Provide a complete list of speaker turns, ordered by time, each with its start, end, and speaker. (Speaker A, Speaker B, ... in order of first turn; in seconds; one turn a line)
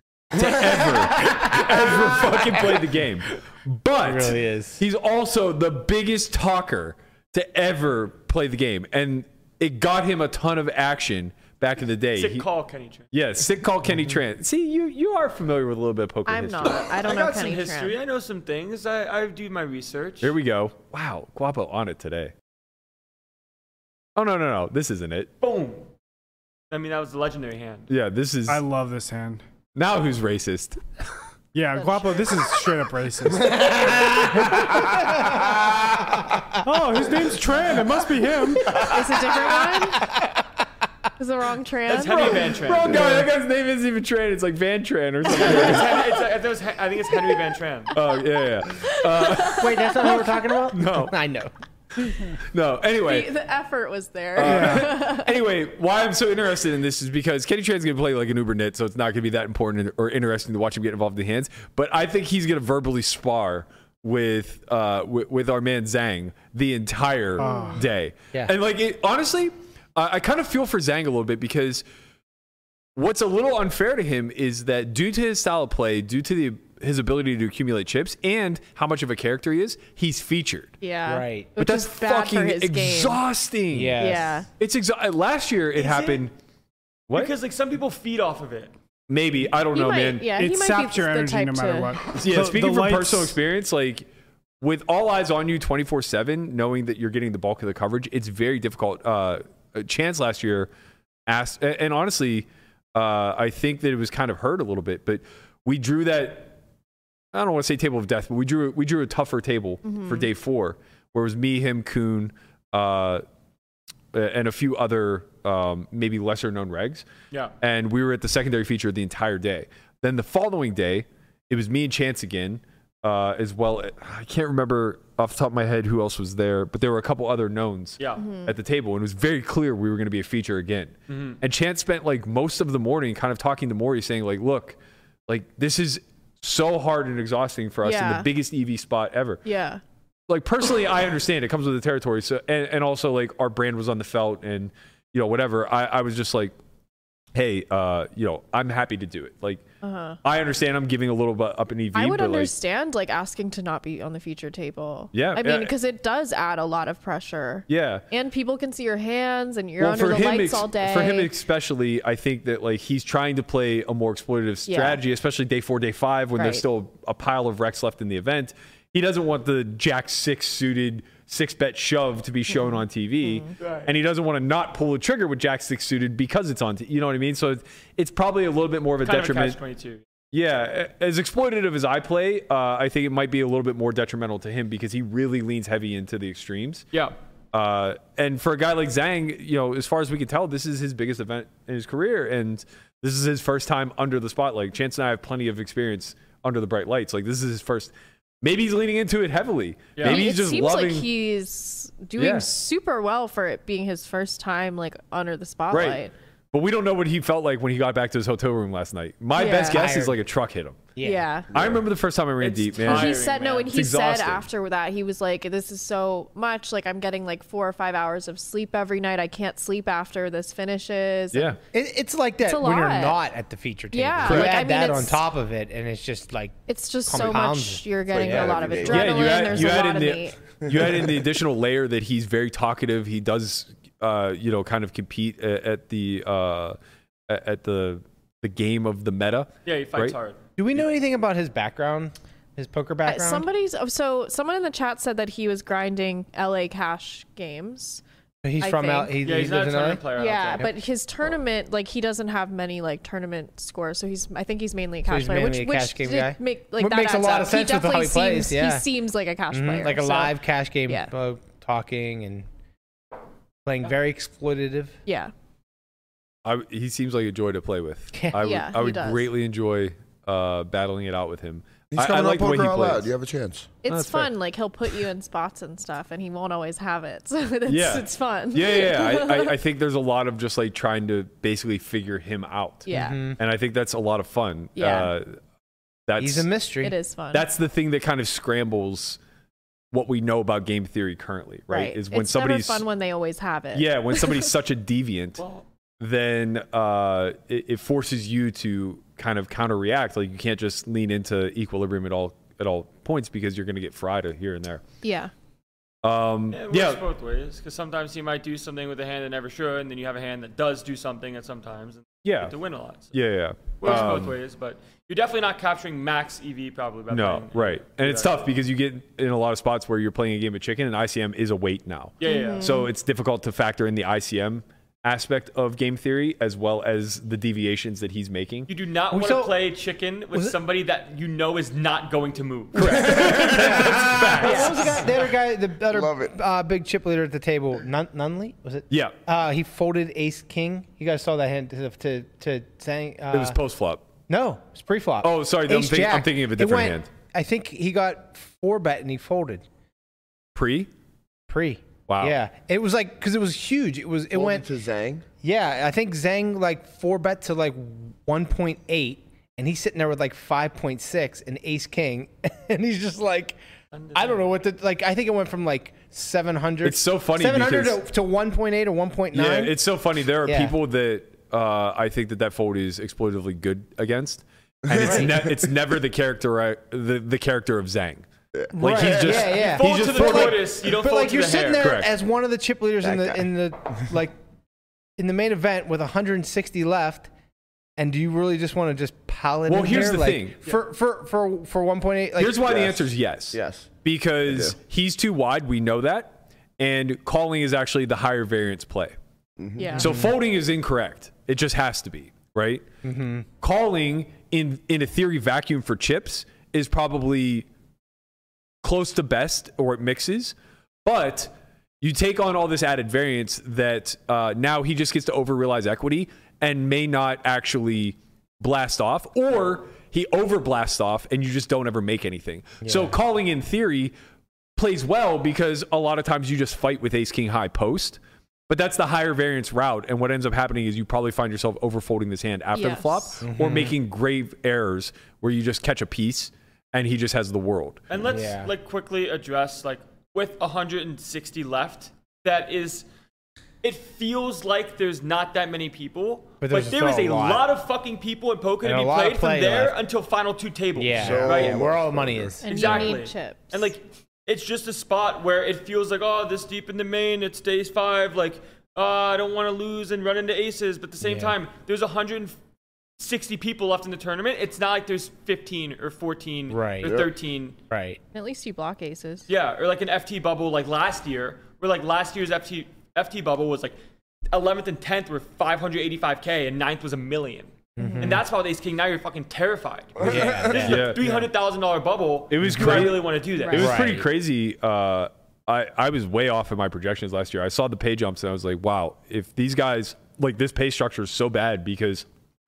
Speaker A: 0.3-12.5
Speaker B: 4.0-4.8
Speaker C: 12.2-13.1
Speaker A: 13.1-16.9
Speaker D: 16.3-18.0
Speaker C: 16.9-20.4
Speaker A: 20.2-22.3
Speaker A: 24.2-25.3
Speaker C: 25.4-25.9
Speaker C: 26.7-27.9
Speaker A: 27.9-28.6
Speaker E: 28.5-29.4
Speaker A: 29.8-30.8
Speaker E: 31.5-33.8
Speaker D: 31.8-32.2
Speaker B: 34.3-35.4
Speaker E: 36.6-38.8
Speaker D: 38.9-40.1
Speaker D: 41.2-42.3
Speaker C: 41.9-43.0
Speaker A: 42.1-46.0
Speaker C: 45.3-48.0
Speaker A: 47.9-51.1
Speaker D: 49.0-50.1
Speaker B: 49.6-51.5
Speaker A: 52.5-53.3
Speaker D: 53.0-55.3
Speaker A: 54.4-71.8
Speaker E: 54.5-54.8
Speaker E: 67.4-67.8
Speaker D: 67.5-67.7
Speaker A: 73.0-80.8
Speaker D: 80.8-83.2
Speaker B: 81.1-81.6
Speaker A: 81.6-84.0
Speaker B: 83.7-84.4
Speaker D: 84.0-84.5
Speaker A: 84.6-86.3
Speaker C: 85.8-86.2
Speaker C: 87.1-88.7
Speaker A: 89.1-90.3
Speaker D: 89.7-92.0
Speaker E: 90.4-93.4
Speaker A: 92.1-94.1
Speaker A: 94.6-100.7
Speaker A: 101.3-106.6
Speaker A: 107.3-113.2
Speaker D: 109.8-110.3
Speaker A: 114.1-117.1
Speaker A: 117.6-139.4
Speaker C: 128.0-128.2
Speaker D: 128.2-128.6
Speaker C: 131.1-131.4
Speaker D: 137.8-138.3
Speaker D: 139.4-139.8
Speaker A: 140.3-146.6
Speaker A: 147.3-149.6
Speaker D: 149.8-150.2
Speaker A: 150.2-152.5
Speaker D: 151.9-161.3
Speaker A: 155.1-155.7
Speaker A: 157.7-158.1
Speaker A: 159.8-179.6
Speaker D: 164.7-165.0
Speaker D: 166.4-166.6
Speaker D: 172.5-173.5
Speaker C: 173.6-173.9
Speaker C: 179.0-180.0
Speaker A: 180.3-186.9
Speaker A: 187.5-201.1
Speaker C: 200.0-200.3
Speaker D: 200.0-206.1
Speaker A: 202.2-202.5
Speaker A: 205.7-206.0
Speaker A: 206.5-210.9
Speaker D: 209.3-209.9
Speaker B: 209.5-210.2
Speaker B: 210.9-211.3
Speaker D: 211.0-211.5
Speaker A: 211.5-214.4
Speaker C: 212.4-213.7
Speaker D: 212.8-221.6
Speaker A: 221.3-221.6
Speaker B: 221.7-229.3
Speaker D: 222.4-223.2
Speaker D: 223.9-225.3
Speaker A: 224.2-224.6
Speaker D: 226.7-230.4
Speaker F: 228.1-229.9
Speaker A: 228.9-240.2
Speaker F: 230.6-231.2
Speaker C: 239.7-240.4
Speaker B: 240.6-243.4
Speaker D: 243.0-248.0
Speaker B: 248.4-250.1
Speaker D: 248.6-249.2
Speaker C: 249.2-250.7
Speaker D: 250.1-261.1
Speaker B: 255.1-258.9
Speaker B: 259.5-262.5
Speaker B: 263.6-265.0
Speaker D: 265.1-265.3
Speaker A: 266.4-273.1
Speaker B: 268.1-268.4
Speaker D: 268.4-269.3
Speaker F: 271.9-273.8
Speaker D: 273.8-279.6
Speaker A: 273.9-274.3
Speaker A: 277.7-282.9
Speaker D: 282.9-283.2
Speaker B: 282.9-283.4
Speaker A: 283.4-285.4
Speaker D: 284.8-285.1
Speaker A: 286.1-286.5
Speaker B: 286.2-286.9
Speaker D: 286.8-287.5
Speaker A: 287.3-289.2
Speaker A: 289.9-292.9
Speaker D: 291.7-294.4
Speaker A: 293.7-295.4
Speaker C: 295.4-295.6
Speaker A: 296.0-304.8
Speaker D: 305.0-305.3
Speaker A: 306.0-307.0
Speaker C: 306.5-313.1
Speaker A: 312.2-312.6
Speaker A: 313.1-314.4
Speaker C: 313.8-318.4
Speaker D: 313.9-314.3
Speaker A: 317.1-328.7
Speaker C: 322.2-322.7
Speaker D: 322.2-322.9
Speaker C: 328.7-333.3
Speaker B: 329.1-329.6
Speaker A: 332.8-335.0
Speaker B: 332.8-343.6
Speaker D: 334.4-334.9
Speaker F: 335.9-336.4
Speaker A: 343.3-344.1
Speaker B: 344.3-349.6
Speaker A: 345.2-347.1
Speaker A: 350.6-350.9
Speaker B: 351.5-354.7
Speaker A: 352.1-352.4
Speaker F: 354.3-355.3
Speaker B: 355.4-363.6
Speaker C: 363.9-364.4
Speaker B: 364.1-369.8
Speaker A: 366.8-368.0
Speaker A: 369.3-380.6
Speaker B: 370.4-370.8
Speaker F: 374.9-375.6
Speaker B: 374.9-375.3
Speaker F: 378.5-379.6
Speaker B: 378.8-384.3
Speaker C: 379.6-382.0
Speaker A: 381.8-382.1
Speaker F: 383.0-383.5
Speaker B: 385.2-387.3
Speaker B: 388.0-392.9
Speaker A: 389.7-390.6
Speaker A: 392.4-399.2
Speaker F: 392.7-393.0
Speaker F: 393.5-393.9
Speaker F: 394.5-394.8
Speaker F: 399.6-400.1
Speaker D: 399.8-400.1
Speaker B: 400.0-400.3
Speaker A: 400.0-402.9
Speaker B: 403.0-403.5
Speaker A: 403.6-407.7
Speaker A: 408.8-424.1
Speaker B: 422.8-423.1
Speaker A: 424.8-438.0
Speaker D: 432.8-433.3
Speaker B: 433.4-433.9
Speaker C: 438.1-443.1
Speaker B: 438.2-438.7
Speaker C: 443.8-451.9
Speaker B: 446.6-447.7
Speaker B: 448.8-449.9
Speaker B: 451.0-453.0
Speaker F: 451.1-453.1
Speaker D: 452.6-453.9
Speaker C: 452.6-462.6
Speaker B: 461.2-461.6
Speaker C: 463.2-467.8
Speaker B: 466.7-467.1
Speaker F: 467.0-467.3
Speaker B: 467.9-468.2
Speaker D: 468.3-469.5
Speaker C: 469.5-474.0
Speaker C: 474.5-484.0
Speaker B: 478.0-478.4
Speaker D: 478.0-478.3
Speaker F: 480.2-481.0
Speaker B: 480.2-481.4
Speaker A: 480.8-481.3
Speaker A: 482.5-492.3
Speaker B: 482.6-483.1
Speaker D: 483.6-483.9
Speaker B: 483.7-484.3